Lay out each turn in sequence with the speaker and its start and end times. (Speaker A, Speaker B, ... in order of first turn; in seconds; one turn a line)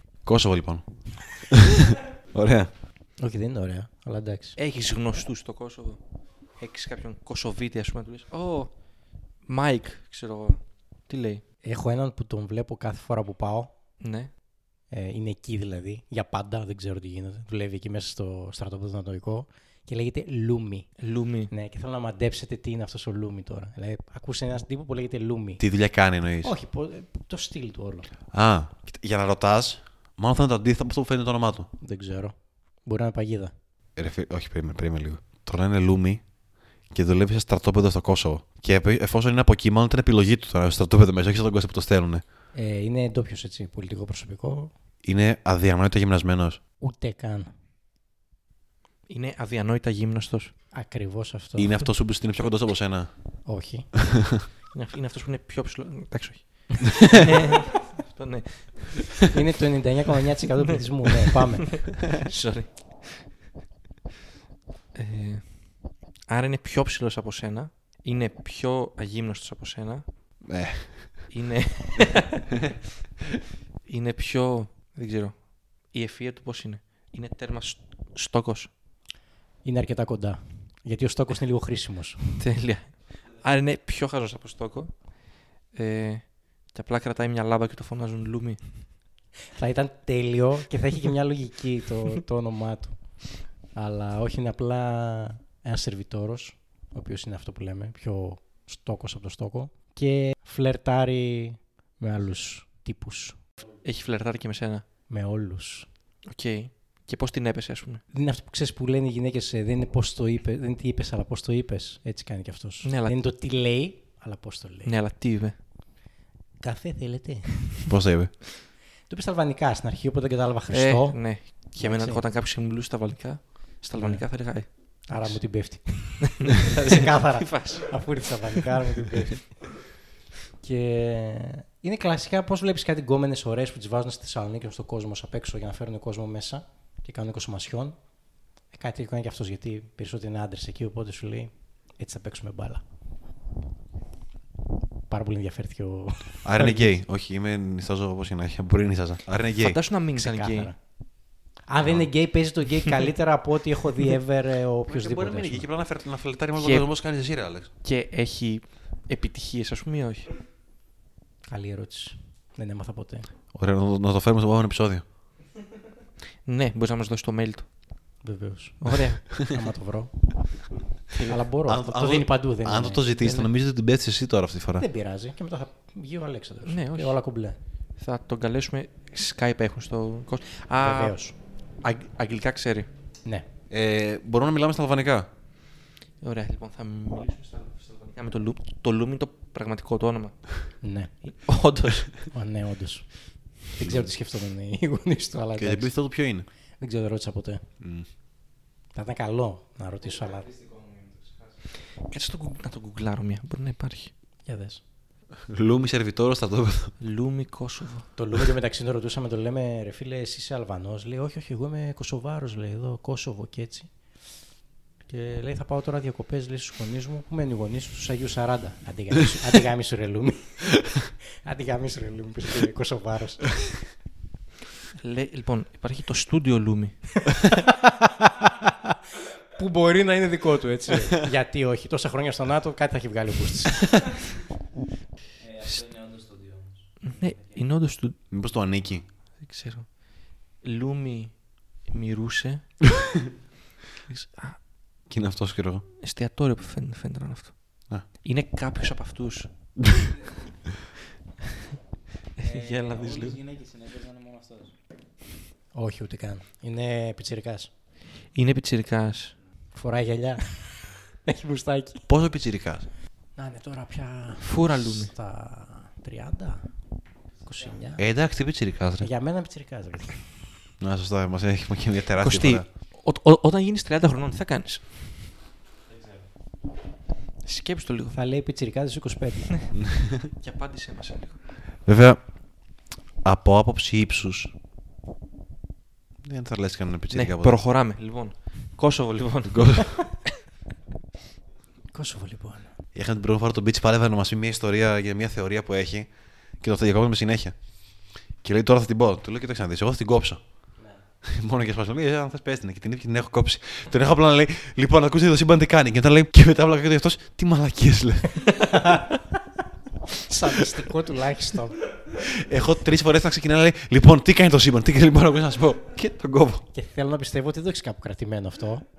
Speaker A: 0.2-2.7
Speaker B: 3.2-4.6
Speaker C: 4.6-6.0
Speaker C: 6.6-8.7
Speaker C: 9.4-11.4
Speaker B: 11.6-13.7
Speaker C: 14.0-14.3
Speaker B: 14.9-20.9
Speaker C: 21.0-21.5
Speaker B: 21.5-25.6
Speaker A: 25.6-26.5
Speaker B: 26.4-28.1
Speaker A: 28.3-31.7
Speaker B: 31.8-33.5
Speaker A: 34.0-36.2
Speaker A: 36.9-42.2
Speaker B: 42.5-44.7
Speaker A: 45.0-46.6
Speaker B: 46.8-47.5
Speaker C: 49.1-50.5
Speaker B: 50.7-51.8
Speaker A: 51.6-53.1
Speaker B: 53.5-53.9
Speaker A: 54.0-54.4
Speaker C: 54.7-59.3
Speaker B: 59.3-61.8
Speaker C: 60.6-63.2
Speaker C: 64.9-65.7
Speaker C: 66.3-70.0
Speaker A: 70.4-71.2
Speaker C: 71.3-72.6
Speaker C: 73.9-78.7
Speaker B: 79.6-82.2
Speaker C: 82.4-84.9
Speaker C: 85.7-88.6
Speaker B: 89.6-93.0
Speaker B: 93.7-103.4
Speaker C: 103.8-104.8
Speaker B: 105.1-105.9
Speaker C: 106.3-108.0
Speaker B: 108.1-114.9
Speaker C: 112.8-113.1
Speaker C: 114.8-115.5
Speaker B: 116.6-117.7
Speaker A: 117.9-118.3
Speaker B: 119.1-122.2
Speaker C: 120.7-129.1
Speaker B: 124.0-129.6
Speaker B: 130.6-138.0
Speaker B: 138.7-142.8
Speaker B: 145.1-146.9
Speaker A: 146.4-149.8
Speaker C: 149.6-150.7
Speaker B: 150.2-150.8
Speaker B: 151.7-155.7
Speaker A: 154.9-157.7
Speaker C: 156.6-156.9
Speaker C: 157.8-160.3
Speaker B: 161.5-163.3
Speaker A: 163.5-165.0
Speaker C: 166.4-167.7
Speaker B: 168.2-170.1
Speaker C: 168.8-169.3
Speaker B: 171.2-173.5
Speaker A: 171.7-174.8
Speaker B: 174.8-177.6
Speaker C: 176.7-177.2
Speaker C: 178.0-181.2
Speaker B: 180.8-181.3
Speaker C: 181.8-182.9
Speaker A: 183.7-185.3
Speaker C: 186.2-190.6
Speaker B: 190.8-191.1
Speaker C: 191.2-192.2
Speaker B: 192.3-195.9
Speaker A: 195.6-196.5
Speaker B: 196.8-197.6
Speaker A: 197.8-198.1
Speaker B: 198.9-200.5
Speaker D: 200.2-201.5
Speaker C: 202.1-204.1
Speaker B: 204.4-204.8
Speaker A: 205.5-206.9
Speaker C: 207.0-208.1
Speaker B: 208.2-213.9
Speaker B: 215.1-223.6
Speaker C: 225.0-227.0
Speaker B: 227.4-228.9
Speaker B: 229.5-234.0
Speaker D: 235.4-237.6
Speaker C: 237.0-238.2
Speaker A: 238.3-239.0
Speaker C: 239.4-239.9
Speaker C: 240.6-242.6
Speaker C: 244.1-244.6
Speaker A: 245.1-245.8
Speaker C: 246.0-249.5
Speaker A: 249.8-250.1
Speaker C: 252.4-253.4
Speaker D: 252.4-254.7
Speaker B: 255.7-257.7
Speaker C: 258.3-259.4
Speaker B: 259.7-262.1
Speaker A: 262.1-262.9
Speaker B: 263.4-266.6
Speaker C: 264.4-265.1
Speaker B: 267.4-268.0
Speaker A: 268.0-269.1
Speaker B: 269.0-270.2
Speaker A: 270.8-272.6
Speaker C: 272.2-275.0
Speaker D: 275.9-276.2
Speaker C: 277.4-278.1
Speaker B: 278.1-279.6
Speaker A: 279.7-280.3
Speaker C: 280.4-281.4
Speaker A: 281.9-282.2
Speaker A: 283.2-284.5
Speaker A: 286.2-287.6
Speaker C: 287.1-290.1
Speaker A: 289.5-290.0
Speaker B: 291.9-292.7
Speaker A: 292.9-296.1
Speaker A: 296.6-297.5
Speaker A: 298.4-300.4
Speaker A: 301.2-309.0
Speaker B: 308.6-309.1
Speaker B: 310.2-311.8
Speaker A: 312.2-316.6
Speaker B: 316.7-318.8